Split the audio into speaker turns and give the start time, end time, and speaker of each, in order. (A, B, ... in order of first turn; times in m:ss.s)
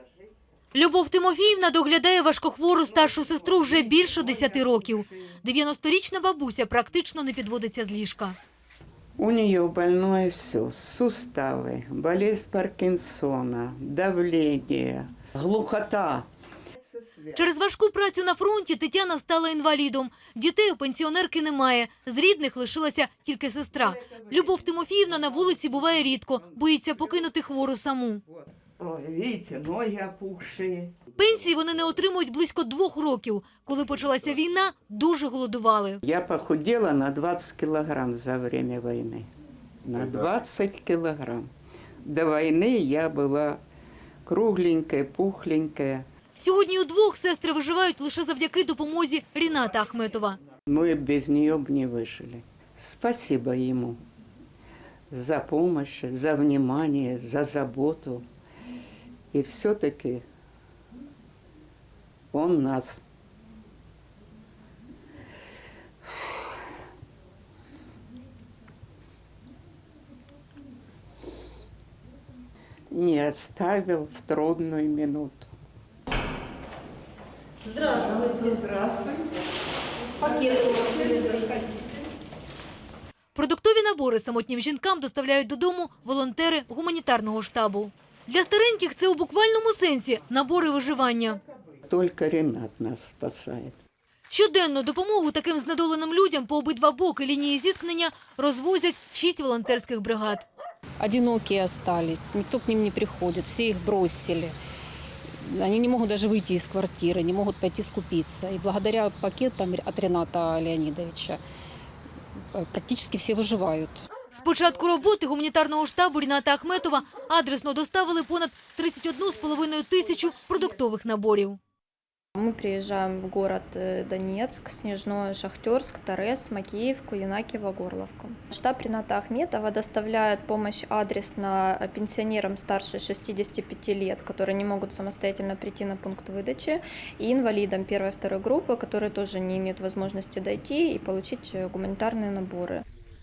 0:00.7-0:08.4 A
0:03.7-0:05.1 B
0:09.2-0:16.3 B
0:16.8-0:17.4 B
0:17.3-0:28.2 A
0:23.8-0:27.4 B
0:28.3-0:31.0 B
0:31.2-0:36.0 A
0:36.0-0:39.3 B
0:39.8-0:41.5 B
0:42.0-0:43.6 B
0:44.2-0:46.0 B
0:46.4-0:50.4 A
0:50.6-0:54.0 B
0:55.1-0:58.2 B
0:59.3-1:00.2 B
1:02.3-1:03.0 B
1:12.9-1:15.5 B
1:17.6-1:18.0 A
1:17.7-1:19.4 B
1:20.2-1:21.8 B
1:20.2-1:21.5 C
1:23.3-1:31.4 A
1:31.8-1:33.8 B
1:34.3-1:40.4 A
1:41.0-1:44.5 C
1:45.4-1:51.4 C
1:52.5-1:54.2 C
1:54.3-2:01.6 A
2:02.4-2:22.8 D